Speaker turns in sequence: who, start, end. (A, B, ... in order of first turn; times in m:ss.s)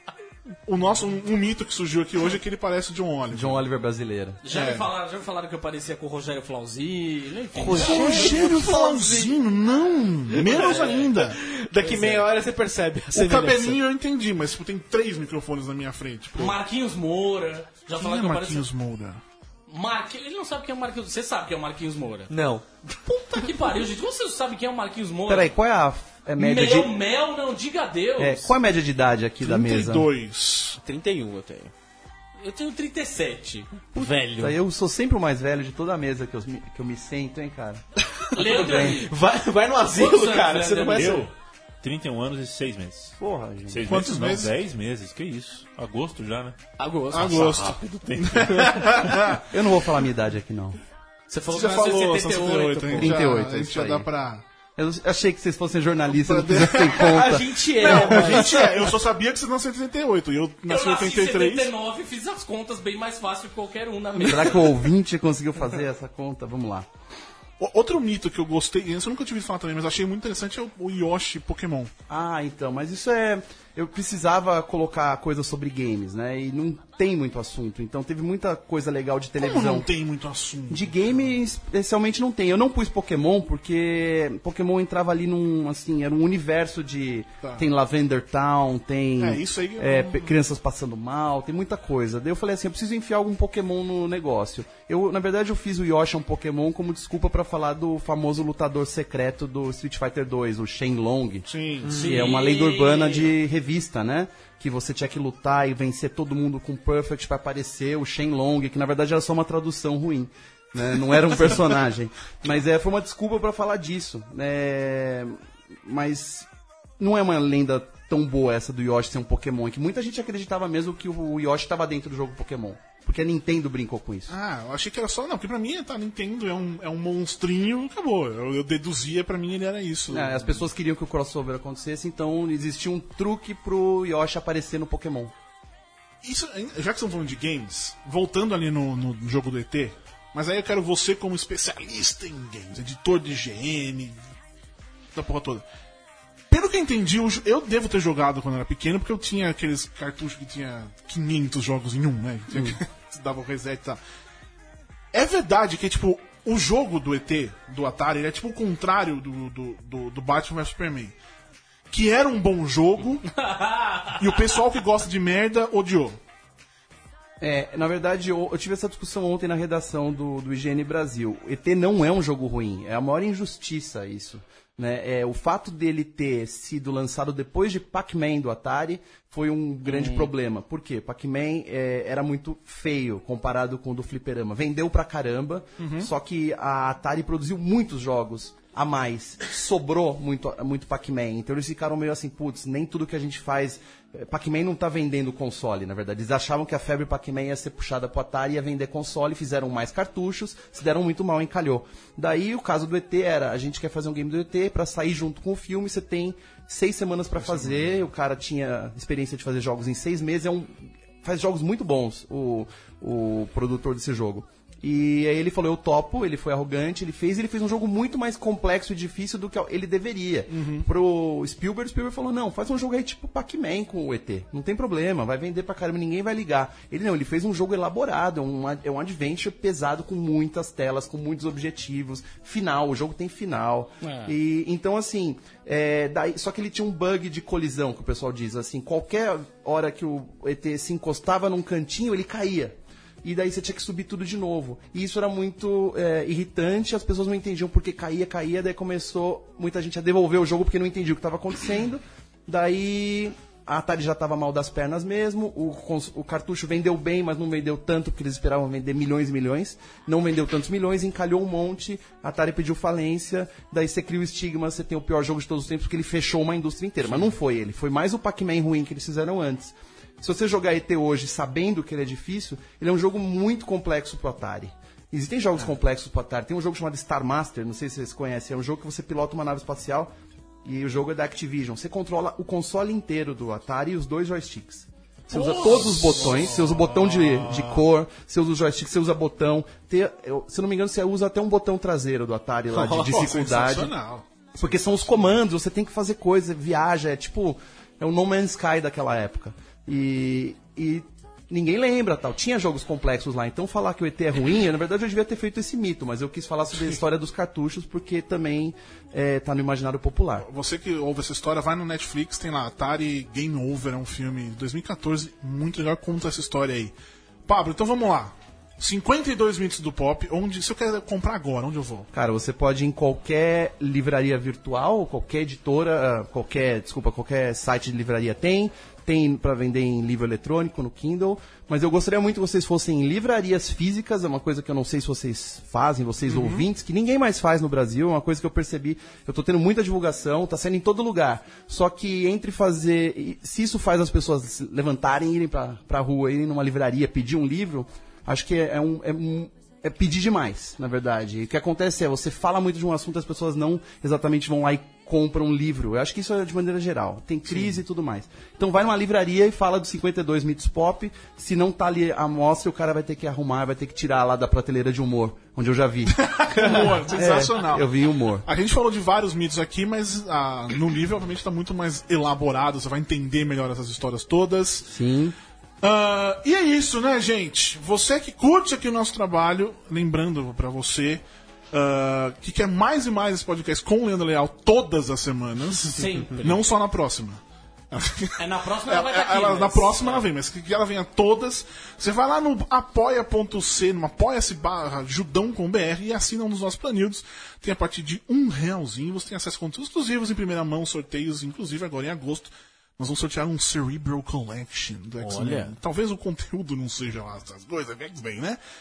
0:00.6-0:03.6 A
0:03.3-0:04.4 B
0:04.4-0:08.4 C
0:04.5-0:04.9 A
0:07.6-0:09.4 B
0:07.6-0:11.4 A
0:10.3-0:13.8 D
0:10.5-0:11.1 C
0:11.8-0:12.2 C
0:13.1-0:16.6 A
0:16.3-0:18.6 C
0:18.0-0:19.2 A
0:19.7-0:22.3 C
0:22.3-0:23.5 D
0:23.3-0:25.5 C
0:25.3-0:27.0 B
0:26.4-0:28.5 C
0:28.2-0:30.1 B
0:29.4-0:30.8 A
0:30.8-0:31.7 D
0:32.4-0:33.8 C
0:33.9-0:34.6 D
0:33.9-0:37.8 B
0:38.3-0:41.3 D
0:38.3-0:39.1 C
0:38.4-0:39.0 B
0:39.9-0:41.2 C
0:40.9-0:43.2 E
0:43.2-0:43.9 B
0:43.7-0:46.6 E
0:43.8-0:44.5 A
0:46.8-0:47.7 C
0:47.1-0:49.5 A
0:47.2-0:49.2 E
0:49.5-0:50.8 B
0:51.3-0:53.2 C
0:51.5-0:54.4 A
0:53.0-0:54.1 B
0:54.8-0:58.5 B
0:56.1-1:01.7 A
0:56.9-0:58.9 D
1:00.7-1:04.8 C
1:04.2-1:06.9 B
1:07.6-1:11.9 A
1:12.1-1:19.9 B
1:19.4-1:21.3 A
1:20.7-1:56.5 B
1:27.4-1:27.7 A
1:29.2-1:30.4 A
1:41.5-1:42.0 A
1:41.8-1:42.4 D
1:41.9-1:43.3 C
1:57.0-2:04.3 B
2:04.3-2:10.6 A
2:10.1-2:15.3 B
2:16.2-2:24.2 A
2:25.1-2:25.6 A
2:26.5-2:34.0 A
2:32.5-2:32.8 B
2:35.1-2:41.1 A
2:41.9-2:43.4 A
2:43.4-2:44.2 C
2:44.2-2:46.2 A
2:47.4-4:40.1 B
2:59.8-3:00.3 C
3:05.8-3:06.1 A
3:27.4-3:28.0 A
3:40.5-3:40.9 A
3:54.0-3:54.3 C
4:40.6-4:53.9 B
4:45.3-4:45.8 C
4:45.5-4:47.8 A
4:52.7-4:53.1 D
4:52.9-4:54.9 A
4:54.5-5:10.4 B
5:10.4-5:16.9 A
5:17.5-5:22.1 A
5:22.1-6:08.4 B
5:36.3-5:36.6 A
5:57.5-5:57.8 A
6:06.1-6:07.9 A
6:08.4-6:14.9 A
6:14.9-6:15.4 B
6:15.8-6:27.4 A
6:25.9-6:26.5 C
6:27.9-6:48.6 A
6:28.4-6:30.2 C
6:45.2-6:45.8 D